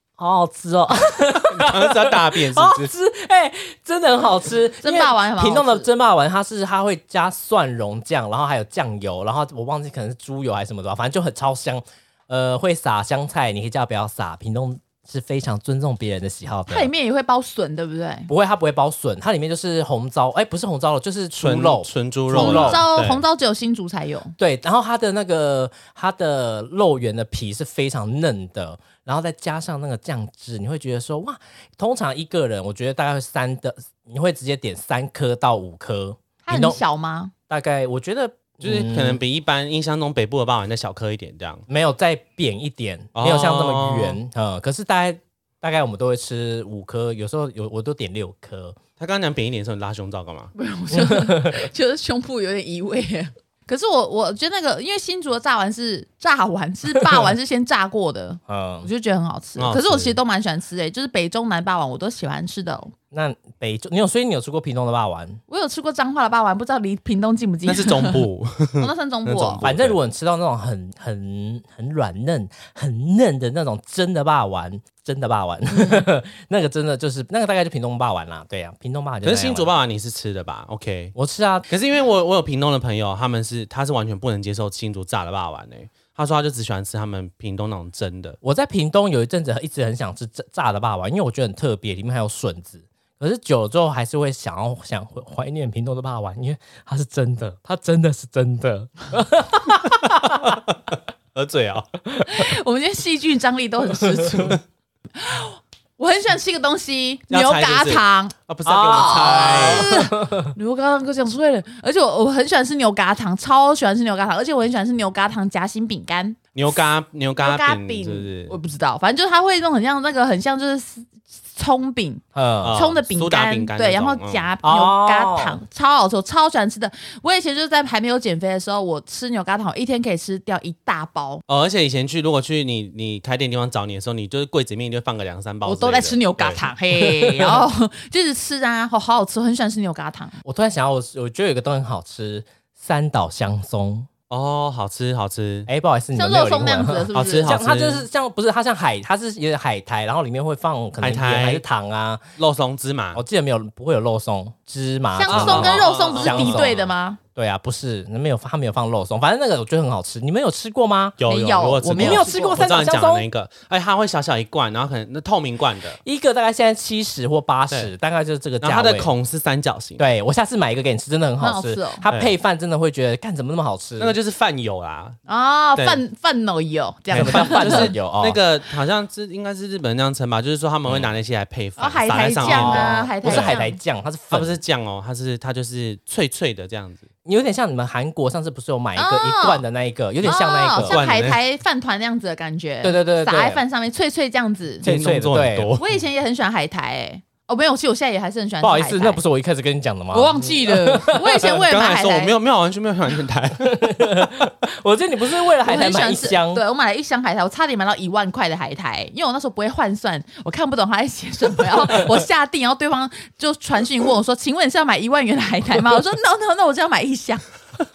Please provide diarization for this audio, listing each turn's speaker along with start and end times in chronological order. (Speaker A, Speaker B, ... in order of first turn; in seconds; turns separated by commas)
Speaker A: 0.2-16.9, Speaker B: 1.5-2.9, Speaker C: 4.8-5.9, Speaker C: 16.7-18.3, Speaker A: 18.3-22.9, Speaker B: 21.4-23.2, Speaker C: 22.3-24.4, Speaker A: 24.4-36.8, Speaker C: 36.5-37.3, Speaker A: 37.5-39.2, Speaker B: 38.6-41.7, Speaker A: 41.7-48.8, Speaker B: 43.2-44.2, Speaker B: 49.0-50.5, Speaker C: 50.5-63.0, Speaker A: 50.9-51.7, Speaker A: 58.5-58.9, Speaker B: 59.6-60.2, Speaker A: 63.1-65.4, Speaker C: 65.5-68.2, Speaker B: 67.7-70.0, Speaker C: 68.8-69.6, Speaker A: 69.6-79.7, Speaker B: 79.2-81.2, Speaker A: 81.2-81.7, Speaker B: 81.7-88.4, Speaker A: 88.4-100.5, Speaker B: 100.2-100.6, Speaker B: 101.3-101.9, Speaker C: 102.2-104.6, Speaker C: 105.2-116.4, Speaker B: 107.3-110.0, Speaker A: 108.7-110.5, Speaker B: 116.5-118.5, Speaker C: 117.4-131.4, Speaker A: 122.3-122.8, Speaker B: 122.6-124.5, Speaker A: 124.6-125.6, Speaker B: 131.5-136.6, Speaker C: 135.7-140.4, Speaker A: 137.0-137.6, Speaker A: 140.4-144.1, Speaker B: 144.3-145.7, Speaker A: 145.7-152.2, Speaker C: 146.2-147.6, Speaker B: 147.1-148.1, Speaker B: 151.0-151.6, Speaker B: 152.4-153.2, Speaker A: 153.1-156.8, Speaker C: 155.2-157.2, Speaker B: 155.3-156.9, Speaker A: 157.3-161.2, Speaker B: 161.2-166.0, Speaker C: 161.3-162.6, Speaker A: 161.9-163.3, Speaker A: 166.0-169.1, Speaker B: 168.6-170.0, Speaker A: 170.0-174.2, Speaker C: 171.4-172.1, Speaker B: 174.0-175.2, Speaker C: 175.3-177.9, Speaker B: 175.8-176.0, Speaker A: 177.1-178.4, Speaker B: 177.2-183.5, Speaker C: 181.8-183.8, Speaker A: 182.4-184.6, Speaker B: 184.3-187.1, Speaker A: 187.2-191.0, Speaker C: 189.0-189.6, Speaker C: 190.2-194.9, Speaker B: 190.8-191.4, Speaker A: 192.8-193.6, Speaker A: 194.8-195.7, Speaker B: 194.8-195.9, Speaker C: 195.8-199.2, Speaker A: 198.6-201.5, Speaker C: 200.1-202.3, Speaker B: 201.7-204.3, Speaker A: 203.6-206.6, Speaker C: 205.6-217.4